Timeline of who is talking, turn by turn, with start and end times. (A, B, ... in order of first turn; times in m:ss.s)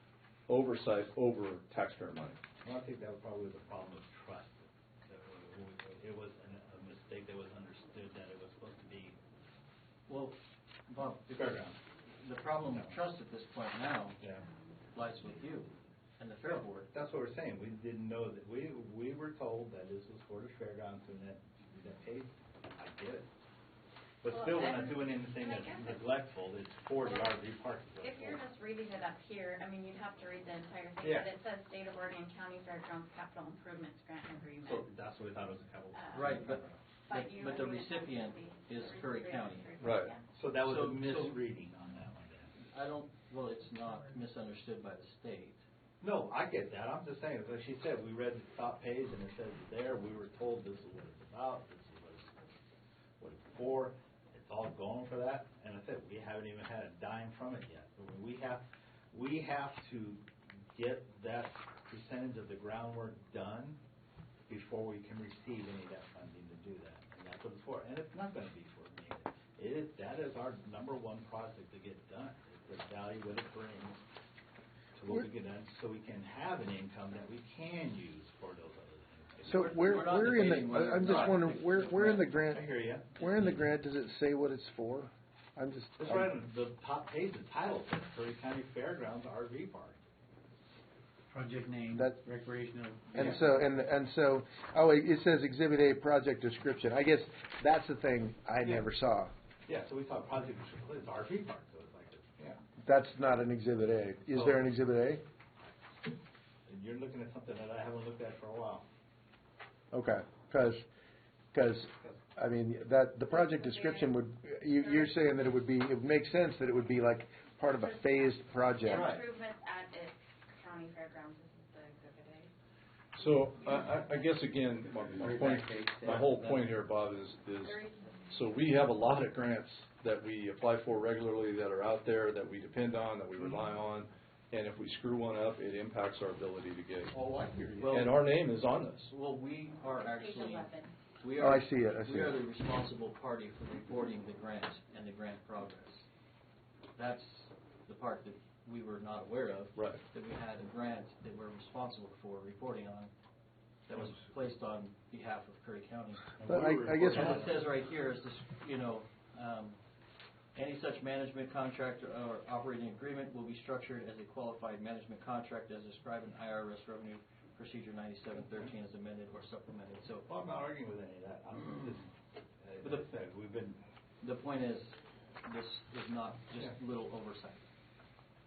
0:00.5-0:02.4 A
0:02.6-0:09.2 B
0:10.1-0:10.4 C
0:10.9-0:11.4 C
0:11.3-0:11.8 B
0:12.1-0:14.2 C
0:14.2-0:14.4 B
0:14.9-0:16.9 C
0:16.5-0:23.3 B
0:24.2-0:28.4 B
0:24.3-0:26.0 D
0:27.0-0:27.4 D
0:28.0-0:34.8 D
0:31.0-0:31.3 B
0:34.6-0:36.8 B
0:35.9-0:36.3 D
0:36.1-0:39.8 C
0:37.1-0:40.2 D
0:39.8-0:40.1 A
0:40.3-0:42.5 B
0:40.6-0:41.4 C
0:42.7-0:45.6 C
0:46.0-0:52.4 B
0:53.2-1:00.2 B
1:00.7-1:03.8 B
1:04.5-1:14.0 B
1:15.0-1:21.4 B
1:19.4-1:26.3 E
1:19.5-1:22.4 C
1:22.5-1:23.1 B
1:23.2-1:23.6 C
1:26.0-1:30.0 B
1:31.3-1:33.2 F
1:31.9-1:32.2 E
1:33.1-1:39.3 E
1:39.7-1:42.6 B
1:42.8-1:45.2 E
1:44.3-1:44.6 B
1:46.7-1:48.8 B
1:49.9-1:50.8 E
1:51.5-1:59.1 E
1:53.3-1:54.1 D
1:54.7-1:55.2 D
1:58.8-2:02.5 D
2:03.1-2:17.2 A
2:05.2-2:06.3 F
2:07.6-2:08.4 D
2:17.8-2:18.2 C
2:17.8-2:19.1 A
2:19.1-2:26.1 C
2:20.0-2:20.9 D
2:21.4-2:22.4 E
2:27.0-2:33.1 C
2:33.9-2:36.4 C
2:36.4-2:37.6 B
2:36.4-2:37.5 E
2:37.0-2:39.8 C
2:40.5-2:50.2 C
2:50.3-2:52.1 B
2:52.6-2:53.8 B
2:52.8-2:53.1 C
2:54.2-2:57.6 C